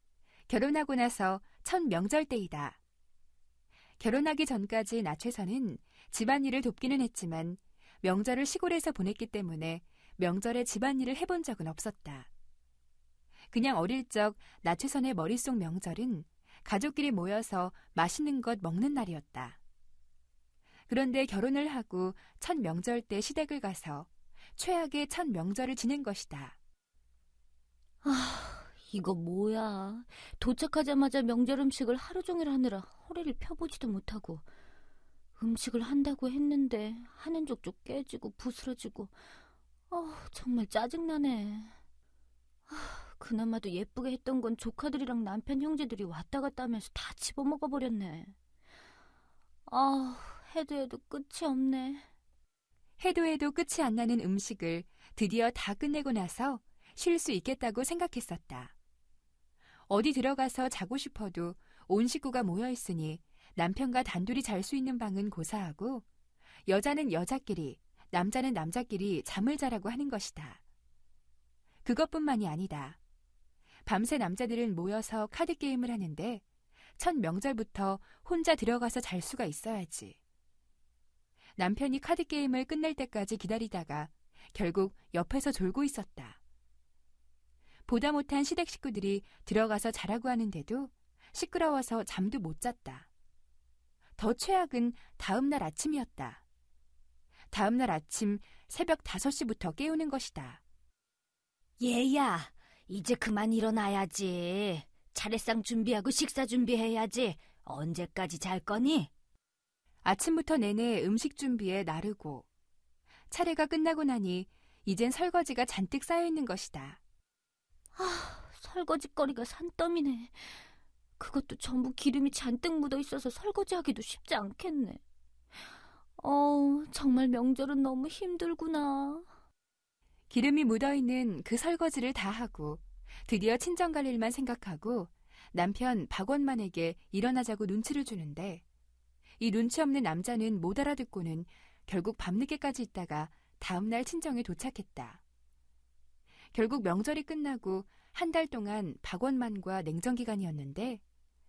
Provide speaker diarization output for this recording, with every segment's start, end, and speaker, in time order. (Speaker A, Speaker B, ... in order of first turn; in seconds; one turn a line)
Speaker A: 0.5-2.8
Speaker A: 4.0-12.3
Speaker A: 13.5-19.6
Speaker A: 20.9-26.6
Speaker B: 28.0-34.5
Speaker B: 35.4-39.1
Speaker B: 39.9-41.7
Speaker B: 42.7-48.4
Speaker B: 49.7-52.1
Speaker A: 53.0-58.7
Speaker A: 59.9-66.0
Speaker A: 66.7-70.6
Speaker A: 71.8-73.0
Speaker A: 73.9-76.4
Speaker A: 77.0-80.2
Speaker A: 81.6-86.4
Speaker A: 87.9-93.1
Speaker A: 94.2-96.4
Speaker A: 97.5-100.6
Speaker B: 101.8-109.1
Speaker A: 110.0-112.5
Speaker A: 113.3-117.0
Speaker B: 118.0-120.6
Speaker B: 121.2-125.0
Speaker B: 126.2-129.3
Speaker A: 130.3-138.6
Speaker A: 139.4-145.2
Speaker A: 146.5-151.0